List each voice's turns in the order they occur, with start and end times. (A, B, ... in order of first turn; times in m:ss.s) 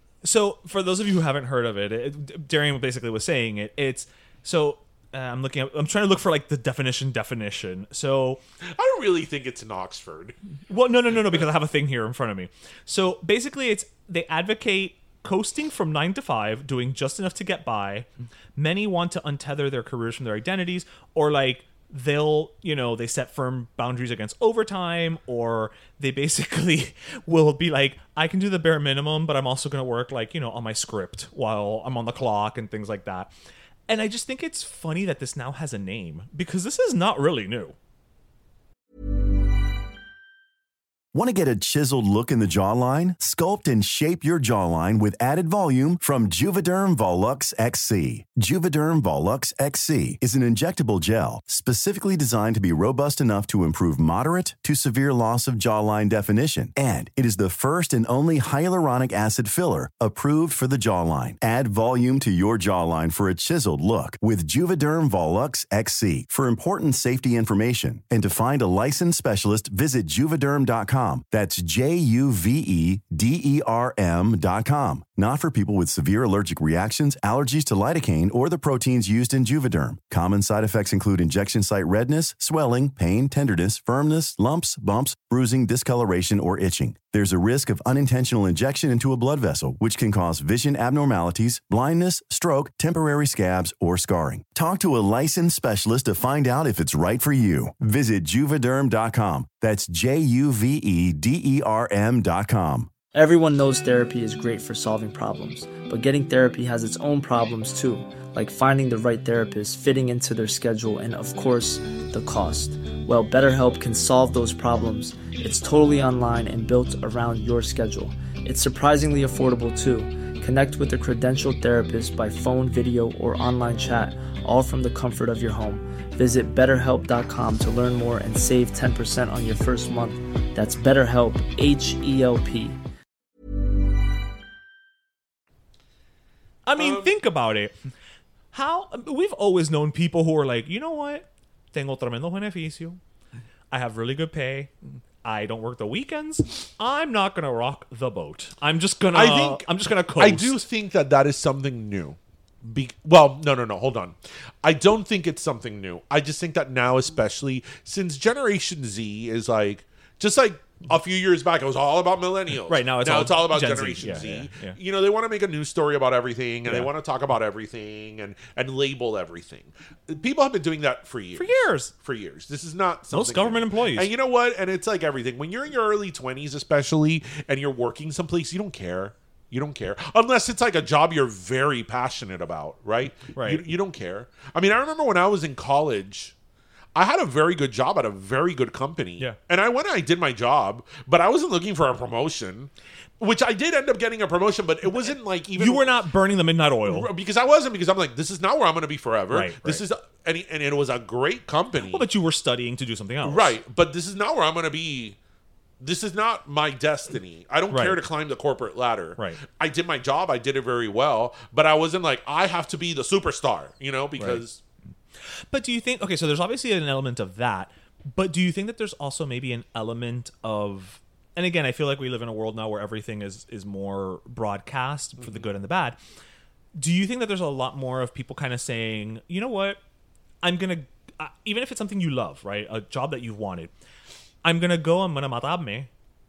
0:00.2-0:08.4 A
0:08.7-0:10.4 B
0:10.7-0:33.3 A
0:33.9-0:37.8 A
0:41.1-1:42.9 C
1:43.1-2:12.8 D
2:16.7-2:17.8 A
2:16.8-2:17.1 B
2:18.5-2:23.0 A
2:23.7-2:24.7 A
2:25.2-2:30.6 A
2:29.1-3:06.3 B
2:42.7-2:44.8 A
2:51.4-2:51.9 A
2:53.1-2:54.1 A
3:03.3-3:03.6 A
3:07.0-3:15.9 B
3:15.6-3:17.1 A
3:16.9-3:22.1 B
3:19.3-3:19.8 A
3:21.8-3:23.5 A
3:23.2-3:25.2 B
3:25.8-3:34.6 B
3:27.7-3:28.0 A
3:35.3-3:46.0 A
3:45.2-3:45.5 B
3:46.8-3:49.8 A
3:50.4-3:53.7 A
3:54.4-3:55.9 A